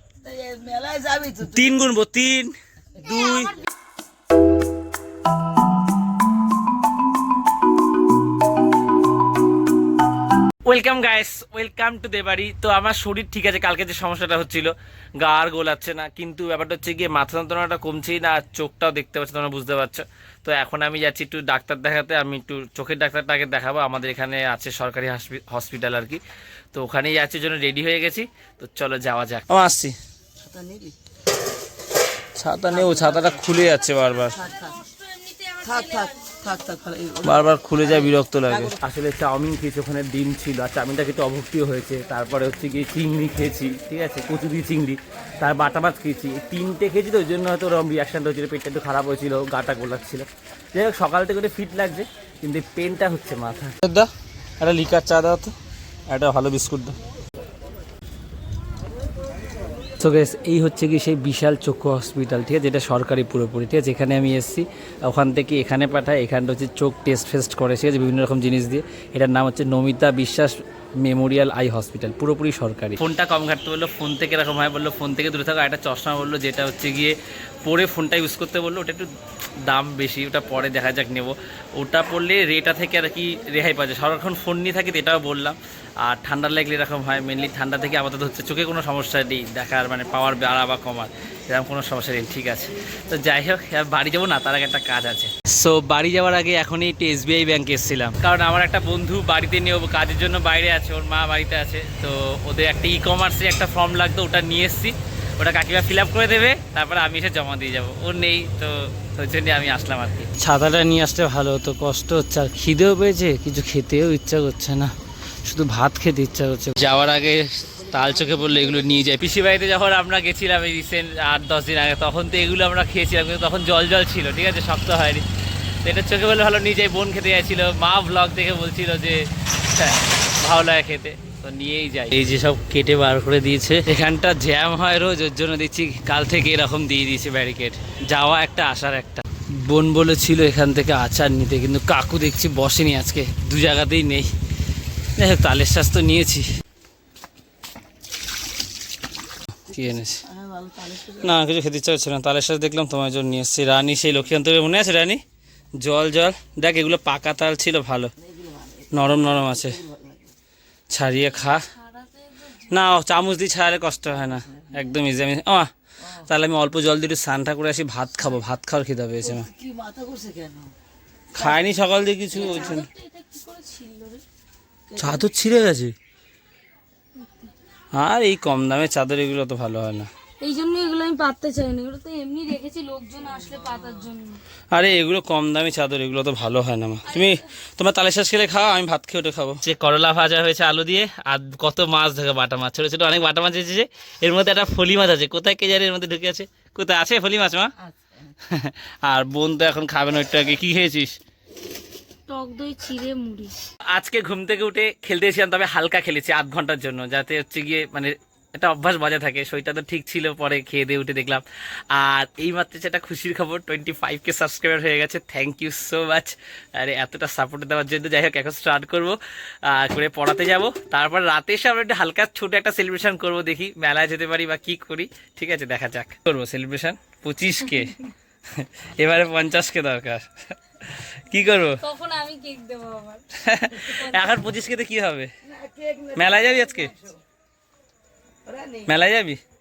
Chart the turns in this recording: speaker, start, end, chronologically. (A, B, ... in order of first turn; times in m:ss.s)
0:00.2-0:01.9 A
0:01.4-0:03.6 B
0:03.0-0:03.4 C
0:10.6-0:26.2 B
0:26.7-0:30.0 B
0:30.4-0:30.9 A
0:32.3-0:34.4 B
0:32.7-0:33.7 A
0:34.3-0:34.8 A
0:34.9-0:36.3 C
0:35.6-0:38.8 A
0:37.2-0:55.5 B
0:56.1-0:57.0 B
1:00.0-1:19.1 B
1:19.6-2:05.2 B
1:57.8-1:58.4 A
2:05.8-2:24.3 B
2:25.2-2:26.5 B
2:29.7-2:30.2 B
2:29.7-2:31.4 A
2:31.2-2:35.2 B
2:35.8-2:38.1 B
2:38.2-2:40.3 A
2:38.9-2:39.8 B
2:40.9-2:41.7 B
2:41.7-2:42.7 C
2:42.7-2:49.5 B
2:49.2-2:50.7 A
2:51.3-2:52.9 B
2:51.4-2:51.6 A
2:52.3-2:54.2 C
2:54.9-2:55.2 A
2:55.0-2:55.9 B
2:57.2-2:57.5 C
2:57.9-3:00.1 B
3:00.4-3:04.4 C
3:04.7-3:17.7 B
3:07.1-3:07.4 C
3:17.8-3:18.1 A
3:18.4-3:21.2 B
3:22.3-3:23.5 C
3:23.9-3:48.0 B
3:48.5-3:51.8 B
3:51.8-3:53.2 C
3:53.4-3:55.3 B
3:53.8-3:54.4 C
3:55.4-3:57.1 A
3:56.1-3:57.0 B
3:58.4-3:58.9 A
3:58.8-3:59.4 B